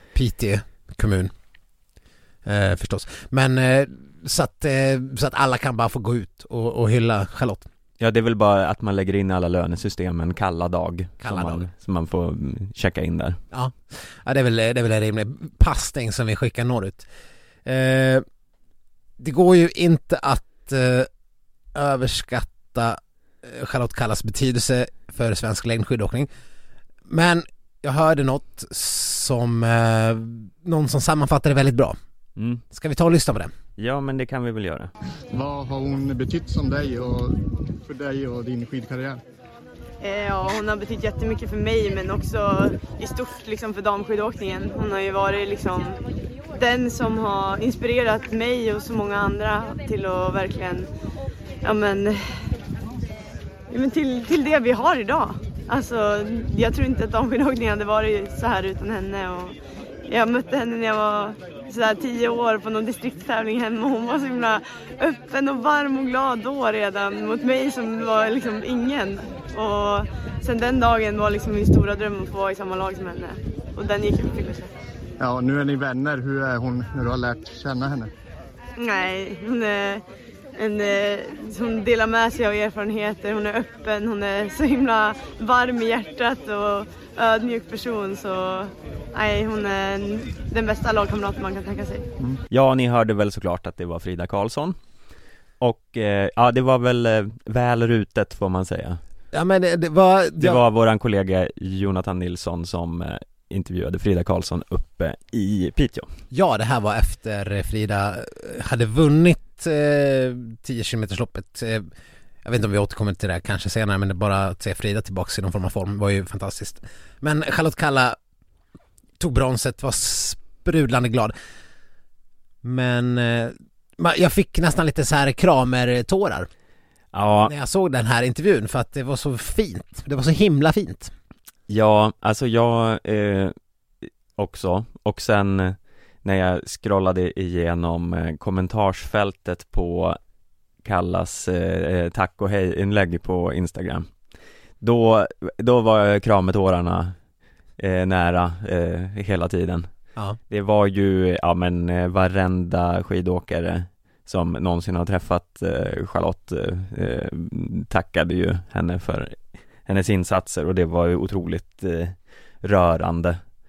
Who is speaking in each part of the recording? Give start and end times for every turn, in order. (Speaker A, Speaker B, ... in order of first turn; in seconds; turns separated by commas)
Speaker A: 0.1-1.3, Speaker A: 2.4-7.7, Speaker B: 8.0-13.4, Speaker A: 11.2-11.7, Speaker A: 13.5-17.1, Speaker A: 17.6-18.2, Speaker A: 19.2-21.1, Speaker A: 21.7-26.3, Speaker A: 27.1-31.9, Speaker B: 32.4-32.6, Speaker A: 32.7-33.5, Speaker B: 33.8-34.9, Speaker C: 35.3-39.2, Speaker D: 40.0-46.0, Speaker D: 46.5-50.9, Speaker D: 51.6-52.2, Speaker D: 53.7-59.5, Speaker D: 60.1-74.7, Speaker C: 75.2-78.1, Speaker D: 78.8-80.0, Speaker D: 80.6-92.0, Speaker B: 92.5-94.8, Speaker B: 95.6-99.0, Speaker A: 99.3-100.6, Speaker B: 100.4-106.1, Speaker A: 106.3-111.9, Speaker A: 112.4-118.2, Speaker A: 119.2-121.3, Speaker A: 122.6-126.5, Speaker B: 127.1-127.5, Speaker A: 127.4-131.1, Speaker B: 131.7-133.5, Speaker B: 134.4-140.2, Speaker B: 140.8-144.1, Speaker B: 144.8-147.2, Speaker B: 147.8-149.9, Speaker B: 150.5-163.4